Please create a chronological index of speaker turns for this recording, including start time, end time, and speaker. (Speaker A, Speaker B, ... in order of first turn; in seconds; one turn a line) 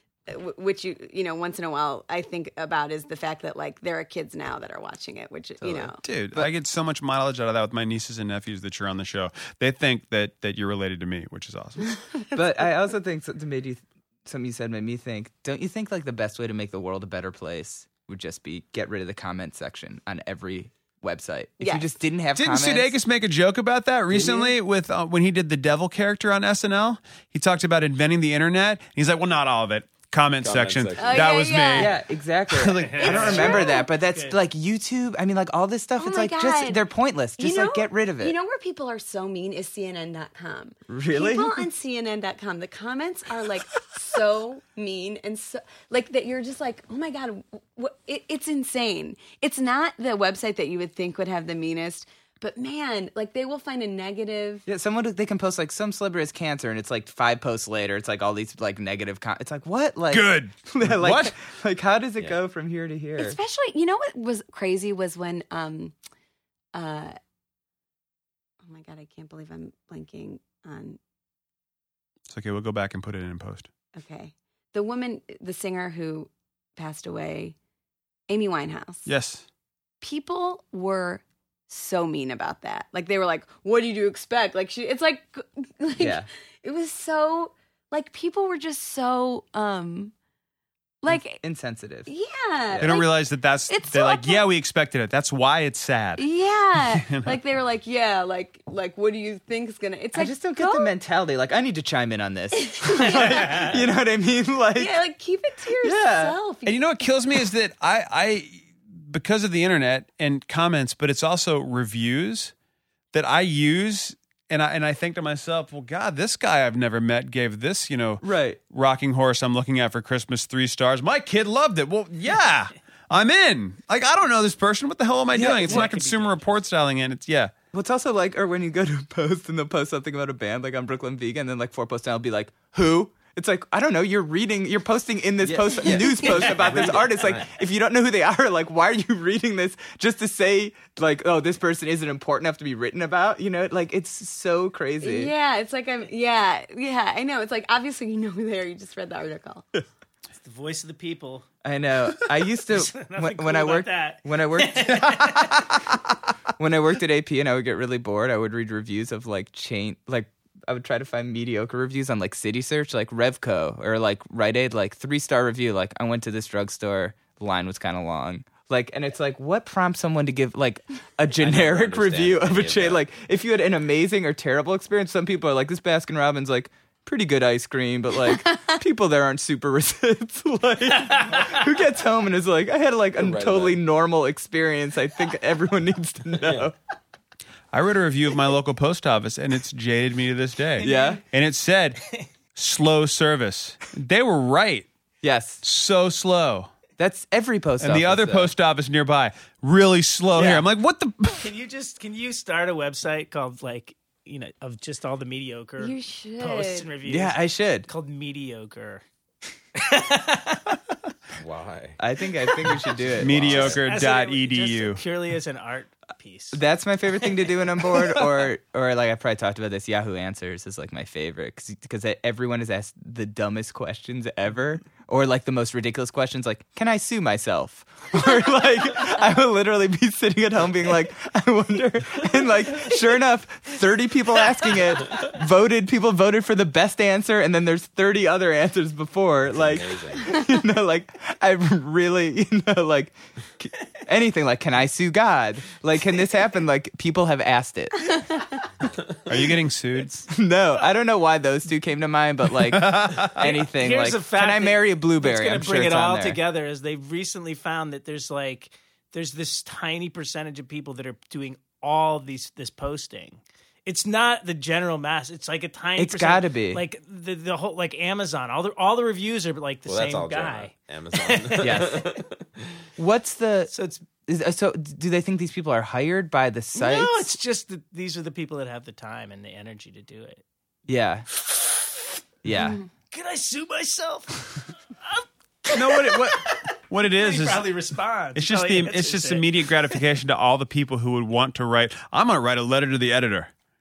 Speaker A: 0.3-6.0
Speaker B: 5.6-6.5
Speaker C: 6.0-11.9
Speaker A: 11.9-12.3
Speaker B: 12.3-22.9
Speaker A: 21.6-21.9
Speaker C: 22.4-32.0
Speaker D: 30.4-31.3
Speaker A: 31.0-31.9
Speaker B: 31.8-38.3
Speaker C: 32.5-33.5
Speaker E: 32.8-34.4
Speaker A: 33.1-33.9
Speaker A: 36.0-36.8
Speaker A: 37.4-54.6
Speaker B: 40.9-41.6
Speaker B: 54.6-63.4
Speaker C: 60.1-61.3
Speaker A: 63.2-65.9
Speaker A: 66.7-67.2
Speaker A: 68.6-71.0
Speaker C: 72.3-73.7
Speaker A: 73.9-77.5
Speaker A: 78.3-79.1
Speaker C: 79.0-79.5
Speaker A: 80.0-90.1
Speaker B: 86.0-86.3
Speaker A: 91.0-91.4
Speaker B: 91.1-92.1
Speaker A: 92.0-94.5
Speaker C: 92.8-96.2
Speaker A: 96.2-100.9
Speaker C: 96.8-97.4
Speaker B: 100.1-105.0
Speaker A: 102.6-103.7
Speaker E: 103.3-103.8
Speaker A: 104.8-106.9
Speaker B: 105.8-106.4
Speaker C: 106.7-112.5
Speaker C: 113.1-127.5
Speaker B: 118.2-118.6
Speaker B: 125.3-125.9
Speaker E: 125.4-126.5
Speaker B: 127.7-145.3
Speaker D: 135.4-137.5
Speaker A: 145.0-149.6
Speaker E: 150.4-151.4
Speaker B: 151.6-155.8
Speaker E: 152.7-155.7
Speaker B: 156.6-186.7
Speaker D: 171.4-173.0
Speaker E: 181.3-181.6
Speaker D: 183.2-183.8
Speaker D: 186.4-186.7
Speaker C: 187.7-192.0
Speaker E: 190.8-191.2
Speaker B: 190.8-191.2
Speaker C: 192.6-194.9
Speaker B: 195.2-195.6
Speaker C: 195.6-196.7
Speaker B: 197.0-198.5
Speaker C: 197.8-201.5
Speaker E: 201.4-205.9
Speaker A: 205.8-206.9
Speaker E: 206.4-209.0
Speaker B: 207.1-207.9
Speaker E: 209.8-210.6
Speaker D: 211.4-212.0
Speaker B: 212.0-213.8
Speaker E: 212.5-212.8
Speaker D: 213.1-213.8
Speaker C: 213.2-215.0
Speaker E: 213.6-216.6
Speaker B: 216.5-248.3
Speaker E: 217.2-218.4
Speaker D: 239.5-240.4
Speaker C: 249.3-250.3
Speaker B: 250.3-256.4
Speaker C: 252.5-253.5
Speaker E: 253.4-258.6
Speaker E: 259.1-270.7
Speaker B: 266.0-266.8
Speaker D: 269.9-272.7
Speaker E: 271.5-272.0
Speaker B: 271.6-272.0
Speaker B: 273.0-273.7
Speaker E: 273.7-274.1
Speaker B: 274.2-277.3
Speaker E: 276.8-280.4
Speaker B: 280.9-281.3
Speaker B: 282.4-282.8
Speaker E: 283.1-290.0
Speaker C: 285.7-287.7
Speaker C: 288.3-293.5